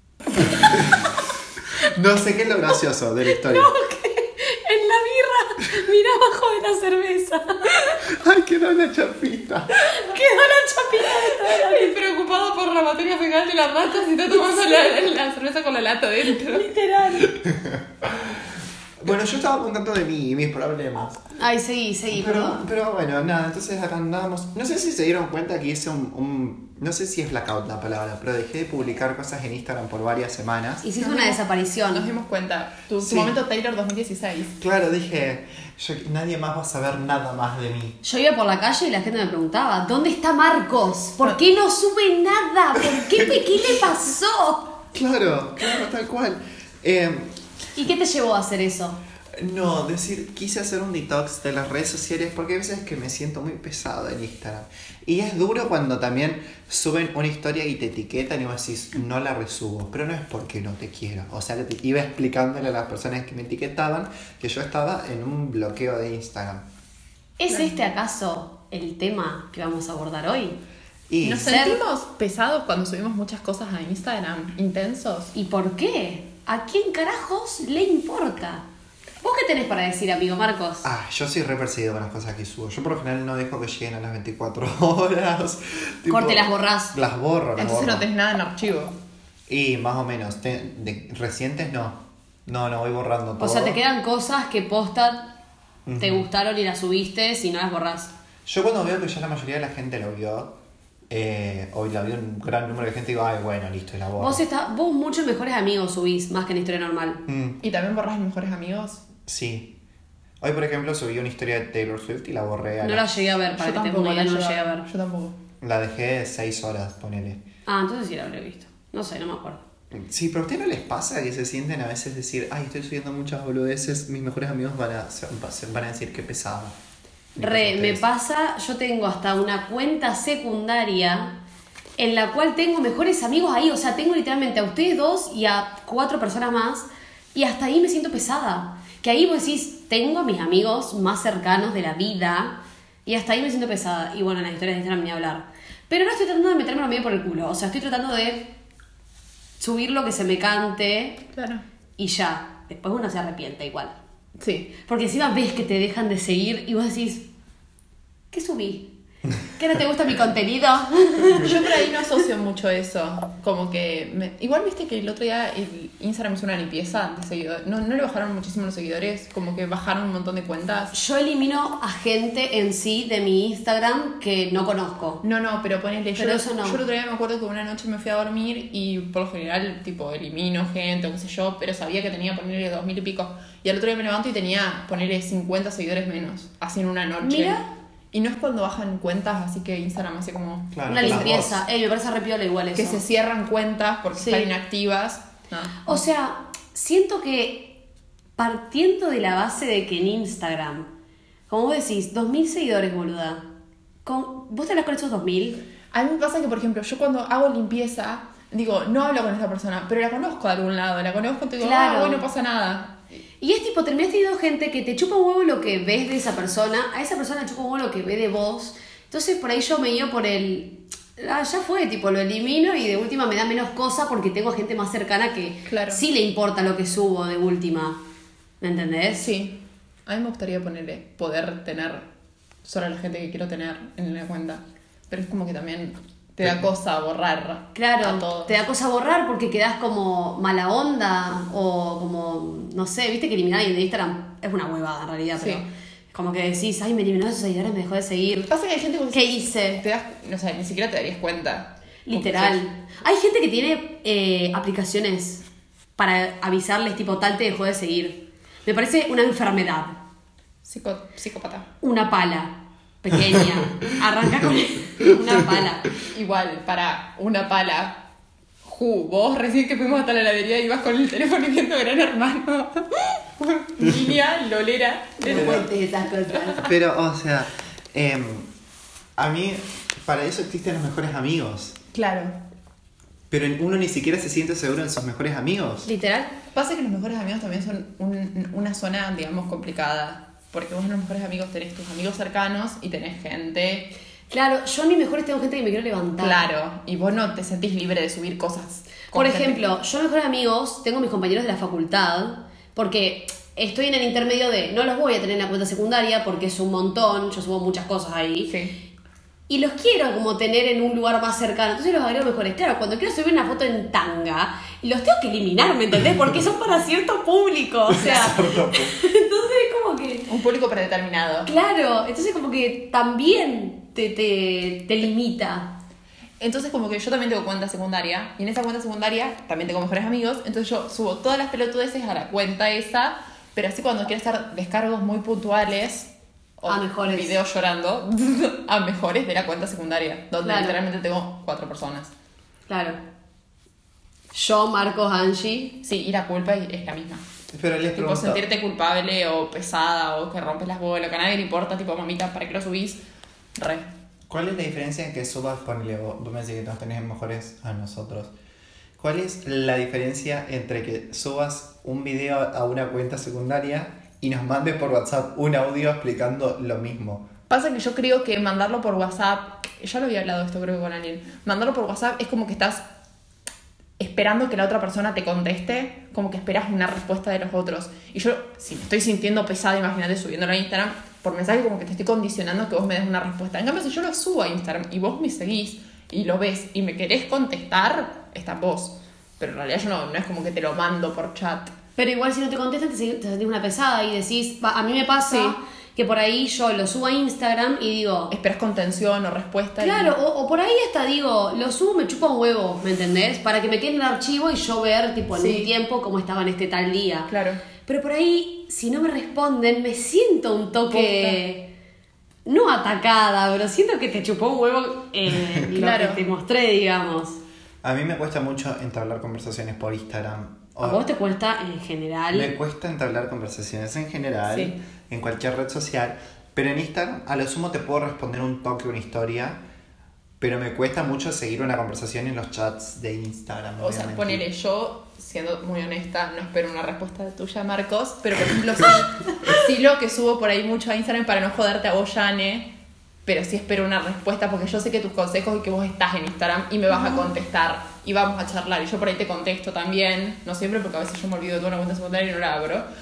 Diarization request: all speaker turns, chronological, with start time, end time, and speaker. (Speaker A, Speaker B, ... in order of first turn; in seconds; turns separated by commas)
Speaker A: 0.3-3.7, Speaker B: 3.2-8.0, Speaker A: 8.0-9.7, Speaker B: 9.8-12.0, Speaker C: 11.3-16.7, Speaker B: 14.5-14.9, Speaker B: 16.2-17.3, Speaker A: 17.4-18.4, Speaker A: 19.0-21.2, Speaker B: 21.3-22.6, Speaker A: 22.1-30.8, Speaker B: 30.8-32.1, Speaker C: 31.0-34.6, Speaker A: 33.0-33.3, Speaker A: 34.6-38.0, Speaker B: 38.0-44.8, Speaker A: 43.0-43.5, Speaker A: 44.9-47.3, Speaker B: 47.8-49.0, Speaker A: 49.4-66.7, Speaker B: 67.4-70.6, Speaker A: 71.1-71.5, Speaker C: 71.2-75.3, Speaker B: 71.3-71.8, Speaker B: 75.3-78.7, Speaker B: 79.2-80.9, Speaker A: 80.8-88.1, Speaker B: 86.1-87.0, Speaker C: 87.5-89.0, Speaker A: 89.5-93.8, Speaker B: 93.4-95.3, Speaker A: 95.8-96.3, Speaker B: 96.0-98.1, Speaker A: 98.5-100.6, Speaker A: 101.1-104.4, Speaker B: 104.2-107.2, Speaker A: 107.3-107.6, Speaker C: 107.6-109.0, Speaker A: 109.2-109.8, Speaker A: 110.4-113.1, Speaker B: 112.8-114.9, Speaker C: 113.5-115.4, Speaker A: 115.6-117.4, Speaker B: 117.7-119.6, Speaker A: 119.9-126.8, Speaker A: 127.3-128.0, Speaker B: 127.4-131.4, Speaker B: 132.0-148.5, Speaker B: 149.6-151.2, Speaker C: 151.3-151.6, Speaker B: 152.0-154.0, Speaker C: 154.4-154.7, Speaker B: 154.8-157.3, Speaker B: 158.3-161.7, Speaker C: 161.3-170.9, Speaker B: 170.9-175.2, Speaker C: 175.2-191.5, Speaker B: 176.1-176.8, Speaker B: 187.2-187.6, Speaker A: 190.7-191.6, Speaker B: 190.9-193.0, Speaker C: 192.8-196.0, Speaker B: 194.2-194.5, Speaker B: 195.8-197.8, Speaker B: 198.4-200.9, Speaker B: 201.5-203.5, Speaker B: 204.0-205.6, Speaker C: 205.9-213.0, Speaker B: 211.6-212.2, Speaker B: 213.4-228.0, Speaker C: 225.7-226.0, Speaker B: 228.6-229.3, Speaker C: 229.2-232.1, Speaker C: 232.6-238.6, Speaker B: 237.7-248.5, Speaker C: 245.4-245.7, Speaker C: 248.5-252.6, Speaker B: 249.1-249.8, Speaker B: 252.1-255.4, Speaker B: 256.0-260.0, Speaker C: 260.6-261.7, Speaker B: 261.8-265.9, Speaker C: 266.1-268.0, Speaker C: 268.6-275.7, Speaker B: 275.2-276.6, Speaker A: 275.3-275.7, Speaker A: 276.6-278.5, Speaker A: 279.2-281.8, Speaker C: 281.9-282.4, Speaker A: 283.3-285.9, Speaker B: 285.8-286.4, Speaker C: 286.5-293.9, Speaker B: 294.3-296.4, Speaker C: 296.2-299.6, Speaker B: 299.1-308.5, Speaker C: 308.5-308.7, Speaker B: 309.5-320.3, Speaker A: 317.9-319.0, Speaker C: 318.0-318.4, Speaker C: 320.3-321.5, Speaker B: 321.4-325.8, Speaker C: 326.4-342.1, Speaker B: 336.7-337.4, Speaker B: 340.4-340.8, Speaker B: 342.7-343.0, Speaker B: 344.3-345.8, Speaker C: 345.8-347.2, Speaker A: 347.5-348.4, Speaker C: 347.9-353.0, Speaker C: 353.6-353.9, Speaker A: 354.3-358.3, Speaker A: 359.0-367.3, Speaker C: 367.5-372.8, Speaker C: 374.0-391.7, Speaker B: 392.0-398.4, Speaker C: 395.2-395.6, Speaker C: 398.3-400.1, Speaker B: 399.8-407.3, Speaker C: 405.4-405.7, Speaker C: 407.3-407.6, Speaker B: 407.8-411.7, Speaker C: 410.9-411.4, Speaker B: 412.4-417.4, Speaker C: 415.7-416.2, Speaker A: 417.8-421.1, Speaker B: 420.8-422.5, Speaker A: 422.3-429.6, Speaker A: 430.4-434.4, Speaker C: 433.8-442.7, Speaker C: 443.2-452.9